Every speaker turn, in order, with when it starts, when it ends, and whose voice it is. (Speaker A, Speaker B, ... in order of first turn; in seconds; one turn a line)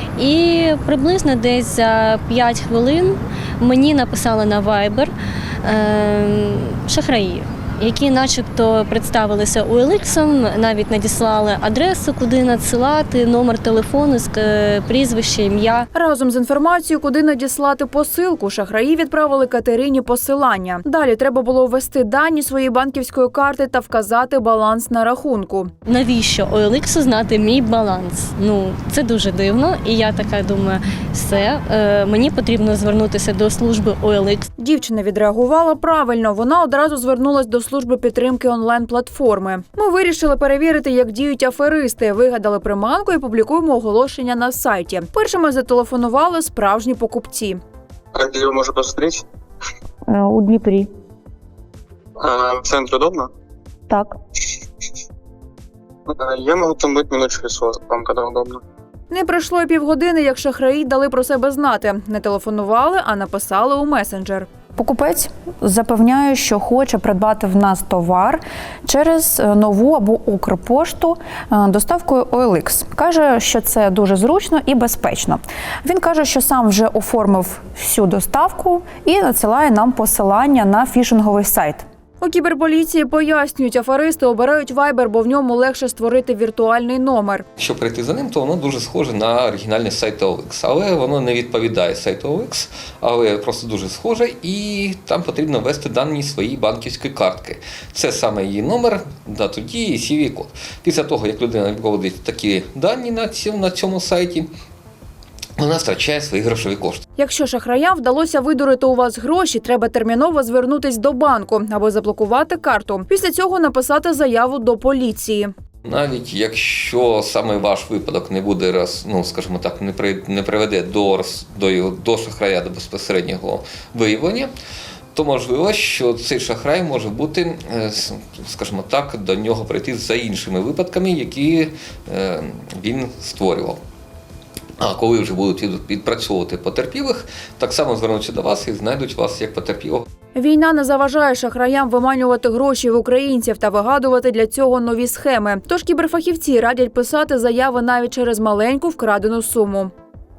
Speaker A: 0.2-5.1
Speaker A: 5.6-15.9
Speaker B: 15.9-25.7
Speaker A: 25.9-34.5
Speaker B: 34.6-47.6
Speaker C: 48.1-49.2
Speaker D: 50.1-50.9
Speaker C: 52.2-53.3
Speaker D: 53.9-54.1
Speaker C: 56.1-58.6
Speaker B: 59.1-64.5
Speaker D: 64.8-81.8
Speaker B: 82.2-87.5
Speaker E: 87.6-104.5
Speaker E: 105.6-107.0
Speaker B: 107.2-115.5
Speaker E: 115.8-124.5
Speaker E: 125.1-133.8
Speaker E: 134.8-140.1
Speaker B: 140.3-149.9